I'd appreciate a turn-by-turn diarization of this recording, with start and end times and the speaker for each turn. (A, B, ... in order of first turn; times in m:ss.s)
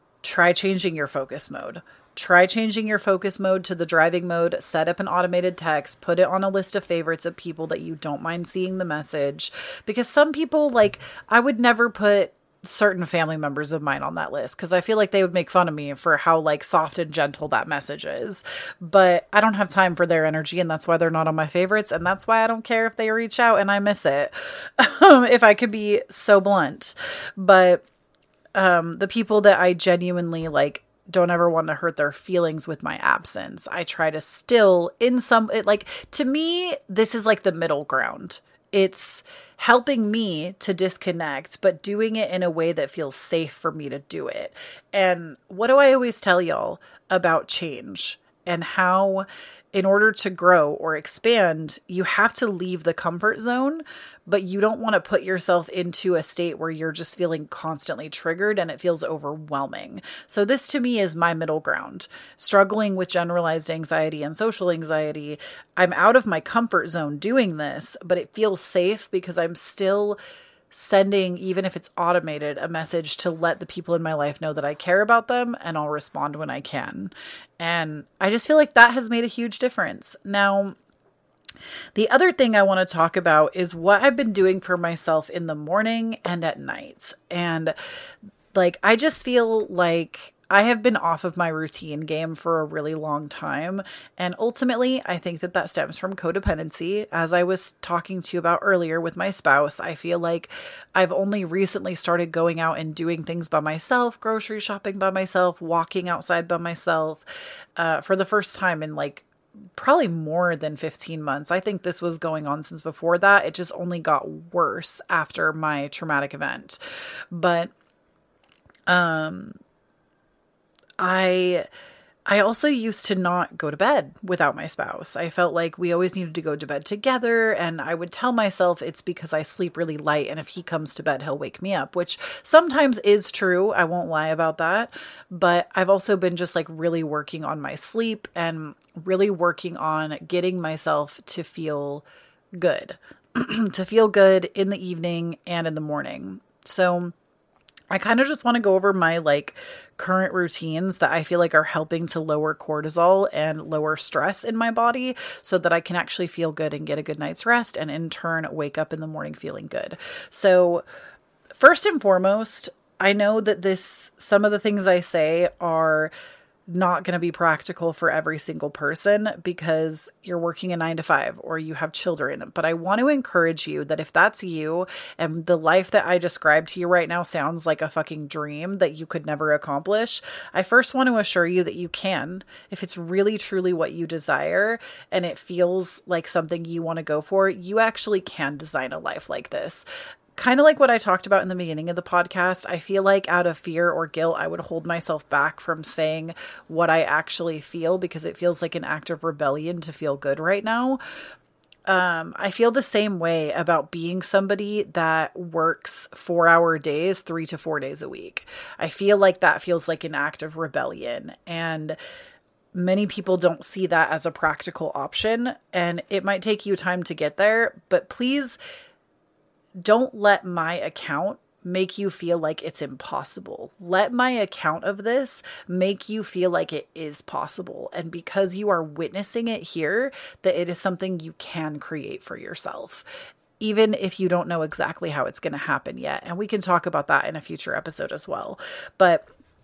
0:00.2-0:27.8 A
0:28.6-1:10.2 A
1:10.7-1:20.8 A
1:22.0-1:27.8 A
1:28.5-1:47.3 A
1:47.8-1:56.8 A
1:57.3-1:57.7 A
1:58.9-1:59.6 A
2:01.0-2:01.7 A
2:02.3-2:22.0 A
2:22.6-2:27.2 A
2:27.9-2:40.8 A
2:41.6-2:46.1 A
2:46.7-3:21.0 A
3:21.9-3:32.0 A
3:32.8-3:38.6 A
3:39.8-3:59.2 A